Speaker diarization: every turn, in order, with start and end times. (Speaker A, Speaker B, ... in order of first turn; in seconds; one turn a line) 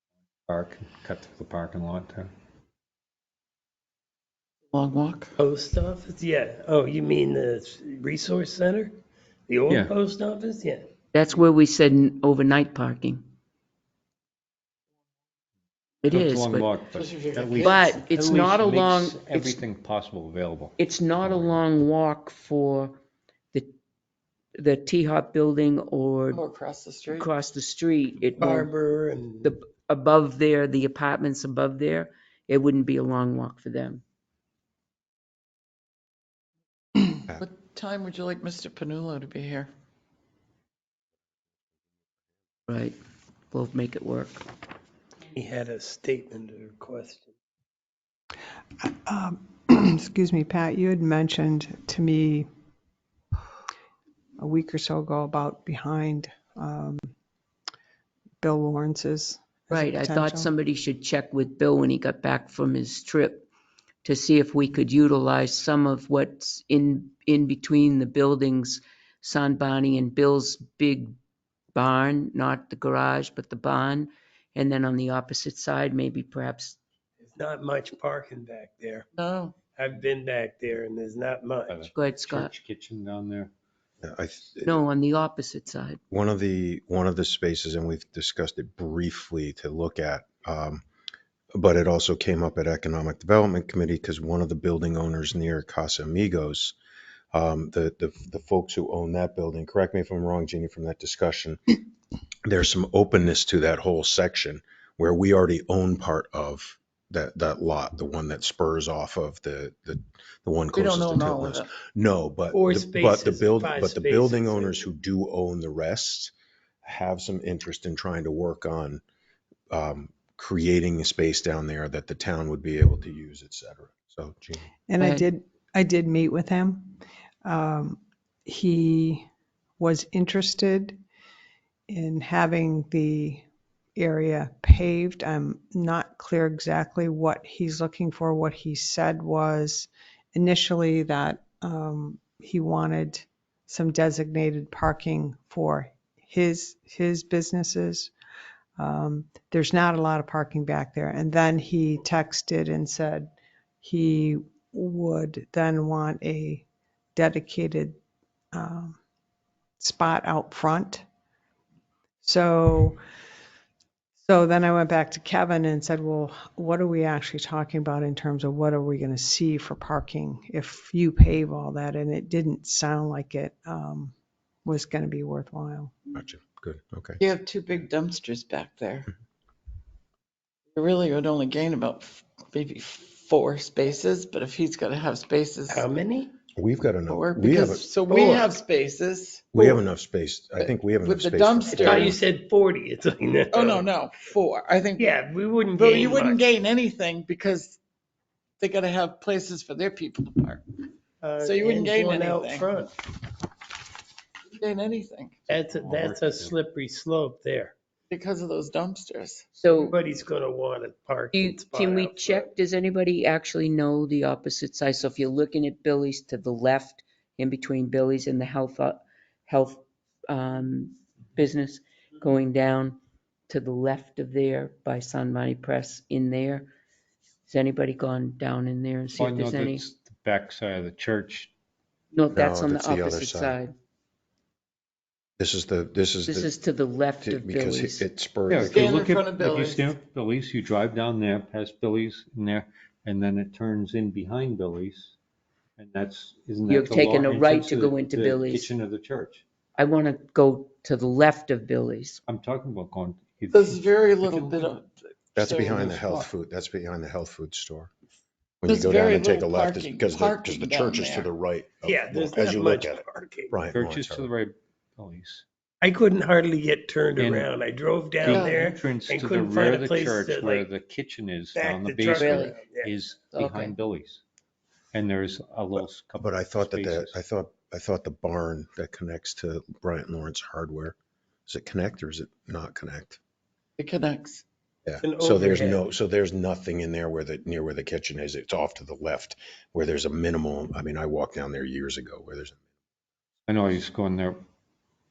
Speaker A: 0.5-2.3
Speaker B: 4.7-5.3
Speaker C: 5.4-9.0
Speaker C: 9.5-10.9
Speaker A: 9.7-9.9
Speaker D: 11.1-13.2
Speaker D: 16.0-16.7
Speaker A: 16.1-21.5
Speaker B: 16.9-18.0
Speaker D: 17.6-19.6
Speaker D: 20.8-23.0
Speaker D: 24.6-26.4
Speaker B: 26.3-27.3
Speaker D: 27.1-28.7
Speaker C: 28.4-29.5
Speaker D: 29.4-34.0
Speaker B: 37.0-39.7
Speaker D: 42.7-43.0
Speaker D: 43.5-44.4
Speaker C: 45.3-47.4
Speaker E: 48.8-52.5
Speaker E: 54.4-57.1
Speaker E: 58.4-60.5
Speaker D: 59.7-63.5
Speaker D: 64.0-71.2
Speaker D: 71.7-76.8
Speaker C: 77.3-79.1
Speaker B: 79.1-79.6
Speaker C: 79.7-81.9
Speaker A: 81.7-83.5
Speaker D: 81.9-82.5
Speaker F: 84.0-84.8
Speaker D: 84.6-86.0
Speaker F: 86.1-90.8
Speaker F: 91.5-96.8
Speaker F: 97.3-101.6
Speaker F: 102.5-116.3
Speaker B: 110.7-111.7
Speaker C: 112.5-114.8
Speaker F: 116.8-119.0
Speaker F: 119.7-124.7
Speaker E: 124.9-129.3
Speaker D: 125.0-125.3
Speaker E: 129.8-131.0
Speaker E: 131.9-133.4
Speaker E: 134.0-148.1
Speaker E: 148.8-158.0
Speaker E: 158.5-159.0
Speaker E: 159.8-161.0
Speaker E: 162.2-163.0
Speaker E: 164.2-174.1
Speaker E: 174.7-176.0
Speaker F: 176.1-177.2
Speaker B: 177.2-179.1
Speaker B: 180.7-185.9
Speaker C: 185.7-186.3
Speaker F: 186.6-188.5
Speaker B: 187.1-189.7
Speaker F: 189.5-192.2
Speaker B: 190.6-192.2
Speaker C: 191.7-193.8
Speaker B: 193.5-195.1
Speaker C: 195.0-196.4
Speaker B: 195.7-197.8
Speaker B: 198.6-200.6
Speaker C: 201.2-202.9
Speaker B: 201.4-202.8
Speaker B: 204.5-205.4
Speaker C: 205.5-207.8
Speaker A: 205.5-206.6
Speaker B: 208.1-209.5
Speaker D: 209.6-210.0
Speaker C: 209.8-212.5
Speaker D: 211.3-226.7
Speaker D: 227.5-229.8
Speaker A: 229.2-231.5
Speaker D: 232.1-233.7
Speaker F: 232.3-233.6
Speaker F: 235.4-236.5
Speaker D: 236.3-238.1
Speaker F: 237.2-238.8
Speaker A: 238.5-245.2
Speaker B: 238.6-239.9
Speaker A: 245.8-249.4
Speaker D: 246.7-248.7
Speaker D: 249.8-252.2
Speaker A: 252.3-254.8
Speaker B: 253.5-256.0
Speaker F: 255.3-257.9
Speaker A: 255.6-256.3
Speaker F: 258.6-264.3
Speaker B: 258.7-261.3
Speaker C: 261.8-263.6
Speaker A: 263.7-265.4
Speaker C: 265.8-270.7
Speaker A: 267.2-267.5
Speaker A: 268.2-274.2
Speaker B: 268.2-268.7
Speaker C: 271.6-272.9
Speaker D: 272.1-272.6
Speaker D: 273.3-273.7
Speaker A: 274.9-277.2
Speaker F: 276.2-281.0
Speaker F: 281.5-283.2
Speaker B: 283.8-284.4
Speaker F: 284.9-292.6
Speaker C: 285.0-285.8
Speaker A: 293.5-294.4